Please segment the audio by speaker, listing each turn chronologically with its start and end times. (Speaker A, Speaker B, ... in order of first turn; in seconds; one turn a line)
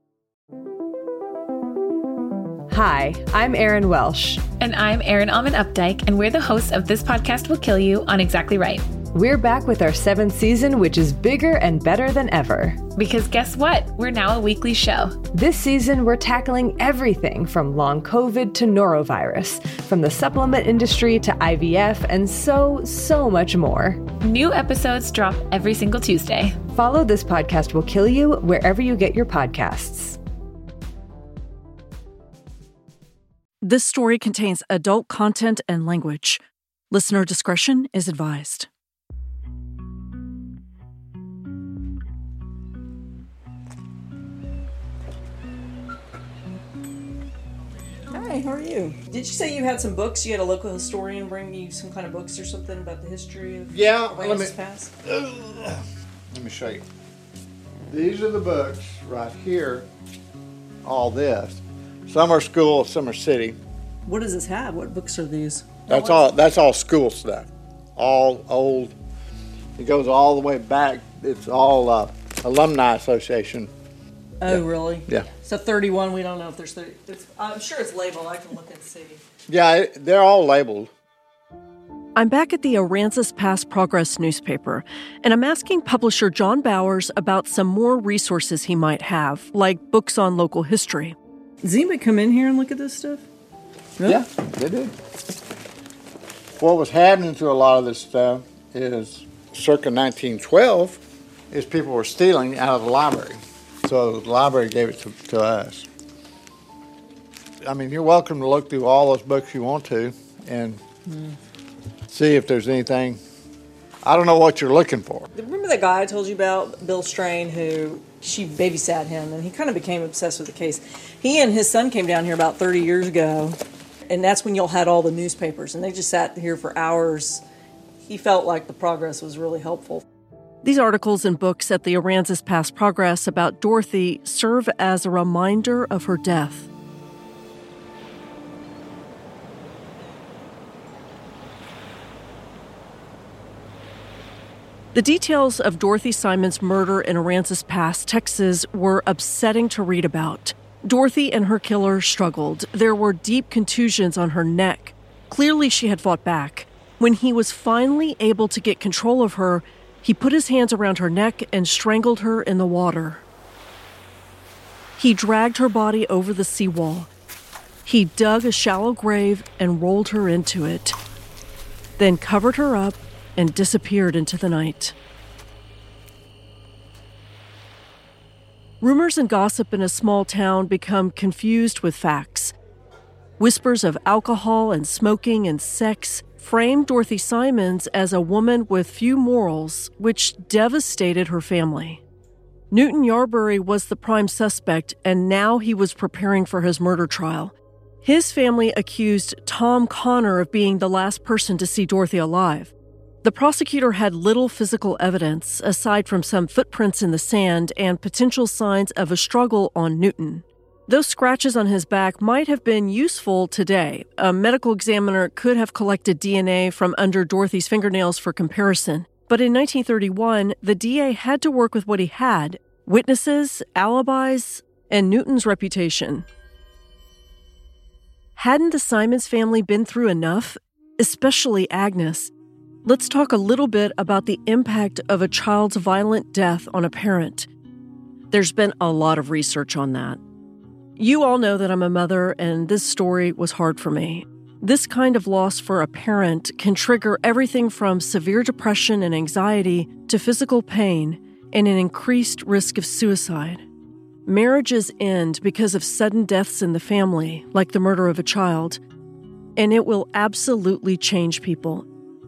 Speaker A: 2.7-4.4
Speaker B: 4.6-8.9
Speaker A: 9.1-12.9
Speaker B: 12.9-15.2
Speaker A: 15.3-24.1
Speaker B: 24.2-26.6
Speaker A: 26.6-30.2
Speaker C: 33.6-38.7
Speaker D: 48.1-54.9
Speaker E: 53.7-54.5
Speaker E: 55.0-55.8
Speaker E: 56.3-56.8
Speaker E: 57.9-59.9
Speaker E: 60.8-63.6
Speaker D: 64.1-66.2
Speaker E: 65.9-68.9
Speaker E: 69.8-73.7
Speaker D: 74.4-79.2
Speaker E: 74.5-75.3
Speaker E: 79.5-80.9
Speaker C: 82.2-91.2
Speaker D: 91.6-93.2
Speaker E: 94.0-94.9
Speaker E: 96.6-101.0
Speaker E: 101.5-105.9
Speaker E: 107.7-110.8
Speaker D: 111.1-111.4
Speaker E: 112.1-113.2
Speaker E: 114.0-115.3
Speaker D: 115.3-123.6
Speaker D: 124.1-127.4
Speaker D: 128.1-130.0
Speaker C: 130.6-136.7
Speaker C: 144.9-163.2
Speaker C: 165.0-167.1
Speaker C: 167.8-171.0
Speaker C: 172.0-174.9
Speaker C: 178.8-182.6
Speaker C: 183.4-192.0
Speaker C: 192.7-202.7
Speaker C: 203.2-226.3
Speaker C: 228.4-232.3
Speaker C: 232.8-237.5
Speaker C: 238.3-240.2
Speaker C: 241.0-253.6
Speaker C: 254.3-258.8
Speaker C: 259.6-261.9